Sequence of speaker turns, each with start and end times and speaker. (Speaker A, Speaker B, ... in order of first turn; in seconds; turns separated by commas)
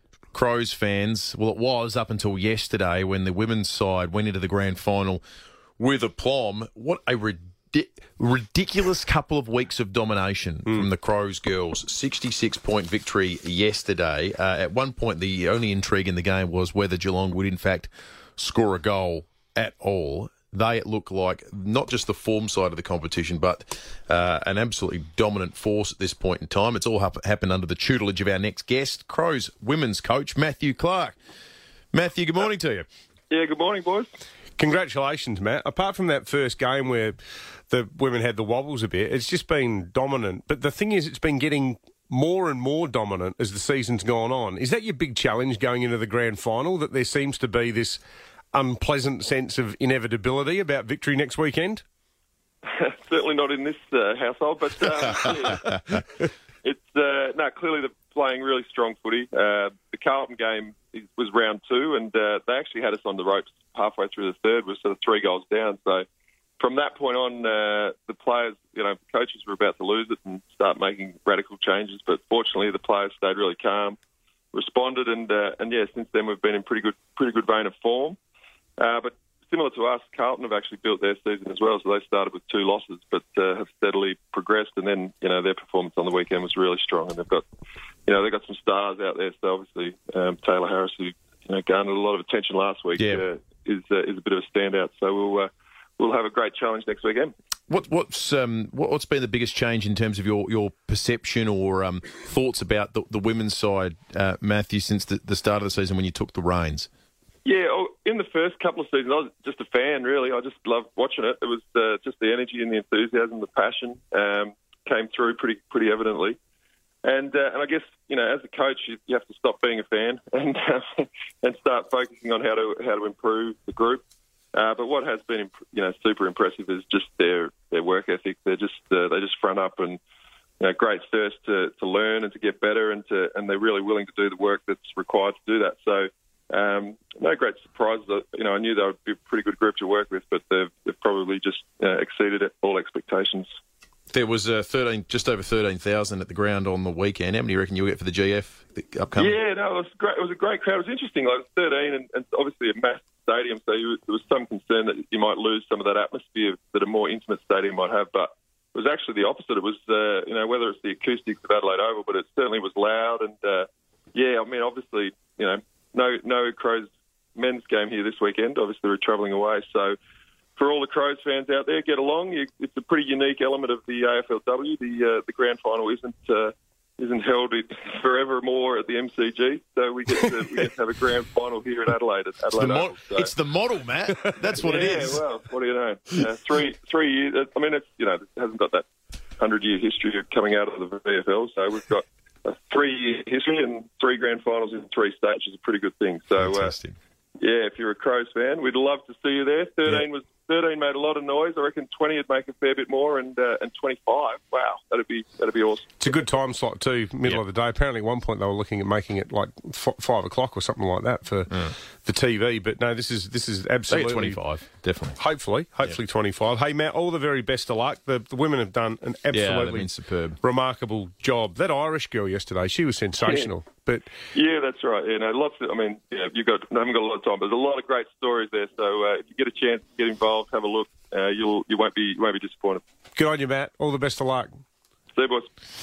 Speaker A: 0.3-5.2, Speaker A: 5.8-31.1, Speaker A: 31.9-32.9, Speaker B: 33.3-34.1, Speaker C: 34.6-37.2, Speaker C: 37.7-48.0, Speaker C: 48.5-51.8, Speaker B: 52.6-55.7, Speaker B: 56.6-66.1, Speaker B: 66.6-74.0, Speaker B: 74.5-78.2, Speaker B: 78.8-87.4, Speaker B: 88.0-97.3, Speaker A: 93.0-93.2, Speaker A: 97.7-106.9, Speaker B: 107.4-116.4, Speaker B: 117.0-124.0, Speaker B: 124.5-130.0, Speaker B: 130.6-143.5, Speaker A: 144.1-149.4, Speaker B: 149.2-169.9, Speaker B: 170.6-183.3, Speaker A: 182.6-185.2, Speaker B: 184.6-188.9, Speaker B: 189.4-196.7, Speaker A: 196.3-196.9, Speaker B: 197.4-206.0, Speaker C: 206.0-214.4, Speaker A: 213.9-215.2, Speaker C: 215.2-219.9, Speaker A: 219.3-220.4, Speaker C: 220.4-224.0, Speaker B: 223.2-223.5, Speaker B: 224.3-232.8, Speaker C: 233.2-234.5, Speaker B: 235.1-235.5